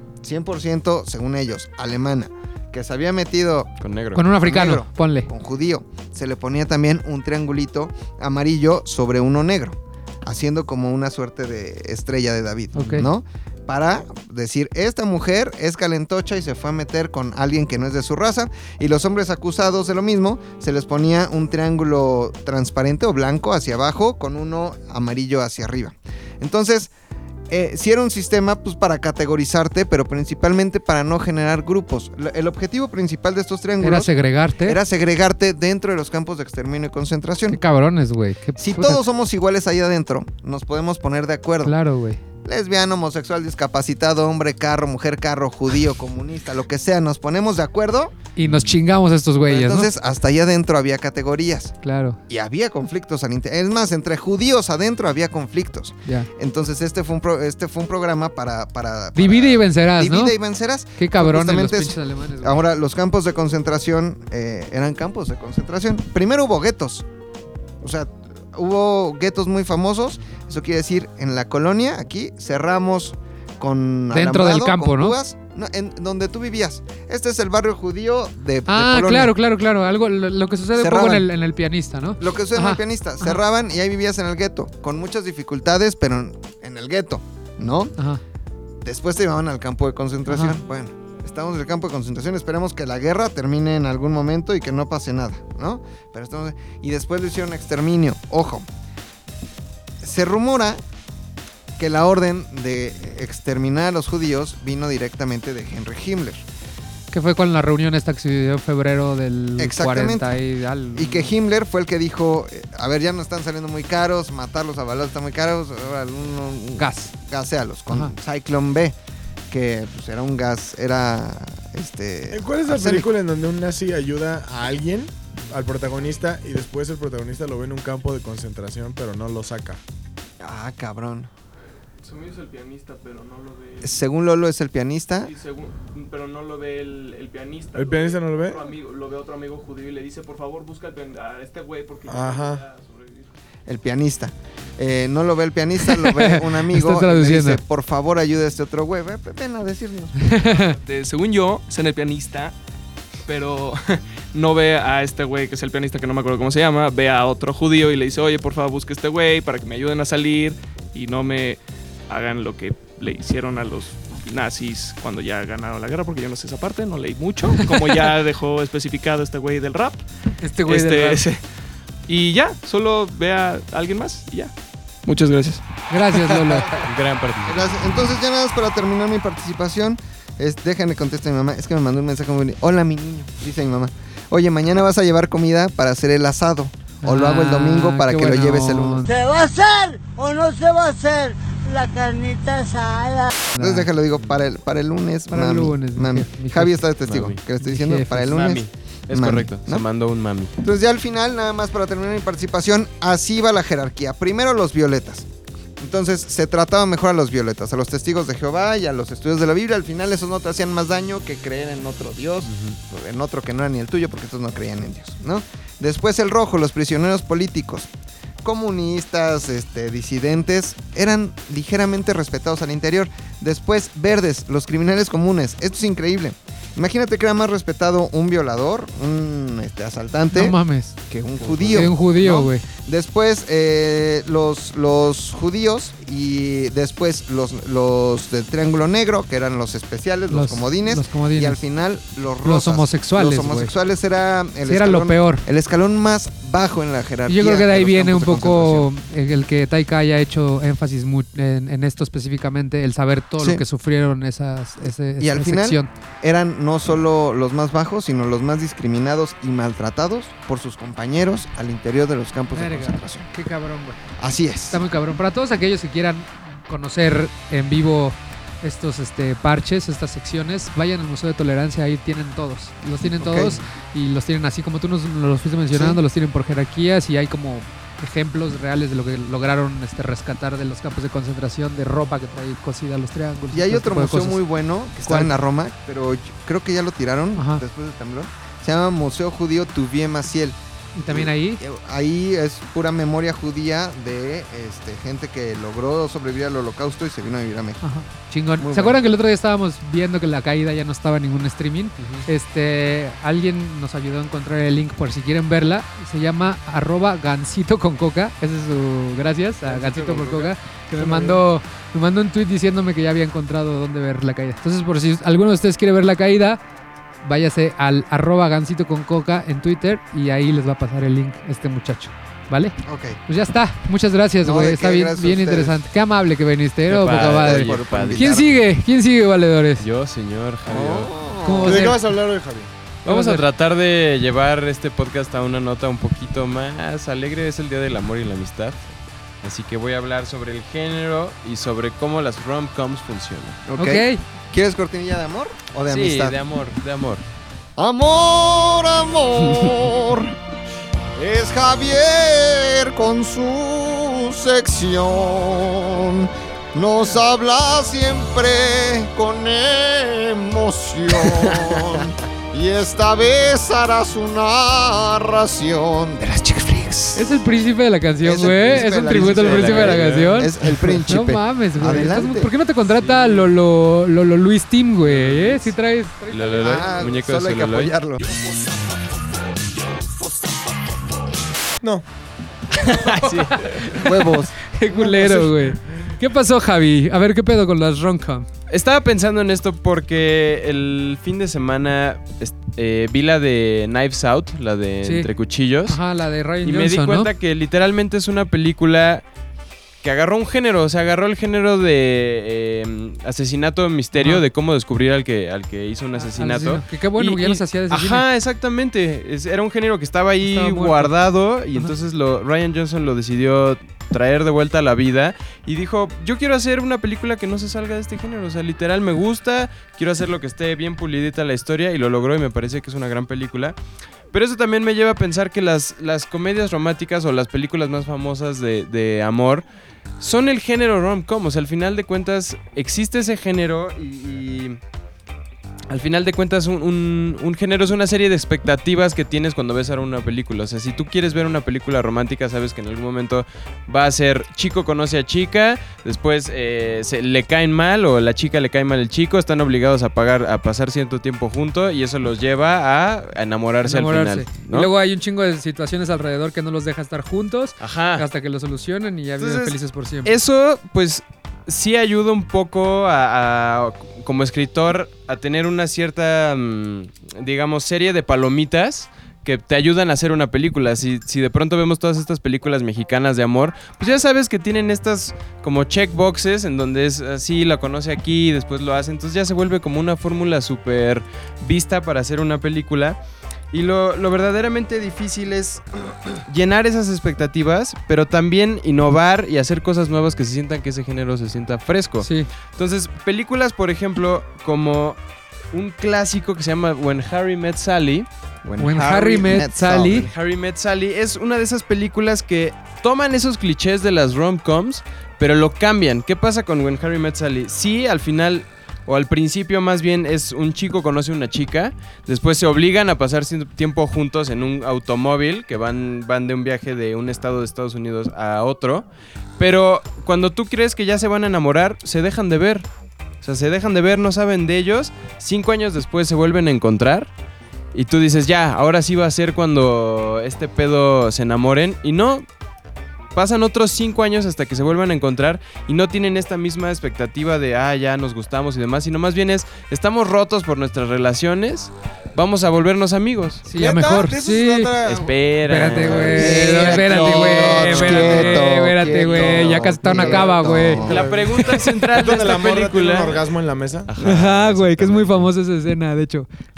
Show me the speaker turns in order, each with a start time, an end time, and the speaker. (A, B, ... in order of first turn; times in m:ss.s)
0:00.2-0:03.7 A
0:03.8-0:04.2 B
0:04.1-0:05.3 C
0:04.4-0:26.9 A
0:12.7-0:13.1 C
0:27.5-0:34.1 A
0:33.8-0:34.8 C
0:34.6-0:37.6 A
0:37.5-0:39.0 C
0:38.6-0:41.7 A
0:41.6-0:42.2 C
0:42.4-0:48.1 A
0:48.4-0:49.9 C
0:49.4-0:51.7 A
0:51.8-0:52.2 C
0:52.3-1:07.0 A
0:59.1-1:00.3 C
1:01.0-1:02.6 C
1:07.8-1:19.3 A
1:14.1-1:15.2 C
1:18.7-1:23.4 C
1:20.7-1:21.3 A
1:22.2-1:27.9 A
1:28.8-1:38.6 A
1:30.3-1:30.6 C
1:40.0-1:40.8 A
1:41.8-1:46.4 A
1:47.1-1:51.3 C
1:49.6-1:50.3 A
1:50.9-1:59.0 A
1:56.8-1:57.1 C
1:59.5-2:03.1 A
2:02.3-2:09.8 D
2:10.4-2:11.3 A
2:12.0-2:14.0 E
2:13.8-2:15.3 A
2:15.2-2:23.3 E
2:17.7-2:18.6 D
2:22.1-2:22.6 D
2:23.7-2:30.2 A
2:25.8-2:27.6 C
2:30.2-2:30.8 C
2:30.5-2:32.5 E
2:33.3-2:50.0 E
2:50.4-2:51.2 C
2:50.7-2:51.4 E
2:52.1-2:54.5 E
2:55.0-2:55.6 E
2:55.9-2:56.8 C
2:56.8-2:57.7 B
2:57.4-3:09.1 A
3:07.0-3:09.1 C
3:09.0-3:13.3 F
3:13.5-3:13.9 C
3:13.5-3:19.8 A
3:15.3-3:16.8 C
3:17.1-3:17.4 B
3:17.6-3:18.3 C
3:18.3-3:20.5 B
3:20.6-3:25.3 A
3:25.8-3:37.9 A
3:32.5-3:32.8 B
3:38.4-3:50.6 A
3:50.3-3:51.0 C
3:51.1-4:08.9 A
3:51.7-3:52.6 C
4:00.3-4:01.6 C
4:02.4-4:03.7 C
4:04.6-4:05.4 C
4:07.3-4:15.9 C
4:13.4-4:13.6 A
4:15.2-4:23.3 A
4:22.5-4:24.0 C
4:24.2-4:24.8 A
4:24.7-4:44.4 C
4:33.1-4:33.6 A
4:35.7-4:36.0 A
4:43.5-4:57.8 A
4:45.0-4:45.3 C
4:47.4-4:47.6 C
4:51.0-4:51.6 C
4:57.8-5:16.6 C
4:58.6-4:59.0 A
5:09.7-5:11.3 D
5:17.2-5:22.8 C
5:22.8-5:23.2 A
5:23.3-5:29.8 C
5:24.4-5:25.8 A
5:26.9-5:28.3 B
5:27.0-5:28.6 A
5:29.8-5:31.1 B
5:30.6-5:31.9 A
5:31.4-5:32.0 C
5:31.6-5:32.7 D
5:33.0-5:38.8 B
5:33.0-5:33.4 C
5:39.4-5:43.6 B
5:43.7-5:46.4 A
5:43.8-5:44.2 C
5:45.9-5:47.2 B
5:47.8-5:50.4 A
5:51.2-6:07.2 A
6:07.1-6:16.6 C
6:08.2-6:12.5 A
6:08.6-6:10.5 B
6:13.0-6:13.4 B
6:15.1-6:15.7 B
6:16.3-6:17.9 B
6:16.6-6:18.4 A
6:22.8-6:23.8 B
6:23.0-6:24.1 C
6:23.9-6:24.5 A
6:24.6-6:28.4 C
6:28.7-6:36.0 B
6:35.9-6:37.3 C
6:36.6-6:39.2 B
6:40.0-7:03.8 B
6:44.2-6:44.4 C
6:46.2-6:48.2 C
6:50.4-6:51.1 C
7:04.3-7:09.6 B
7:10.2-7:14.8 B
7:15.9-7:34.9 B
7:33.8-7:40.3 C
7:37.8-7:38.2 B
7:39.4-8:03.2 B
8:03.7-8:05.8 B
8:06.4-8:15.2 B
8:12.2-8:12.5 C
8:15.7-8:18.3 B
8:18.6-8:20.3 A
8:18.8-8:20.3 C
8:20.3-8:39.0 B
8:39.6-8:42.9 B
8:43.4-8:47.3 B
8:47.9-8:52.4 B
8:53.3-9:03.7 B
9:03.6-9:04.9 C
9:03.7-9:05.3 D
9:05.0-9:08.6 B
9:05.6-9:11.0 C
9:06.2-9:11.2 A
9:11.0-9:14.1 D
9:11.0-9:13.4 B
9:14.1-9:15.5 B
9:14.2-9:16.5 C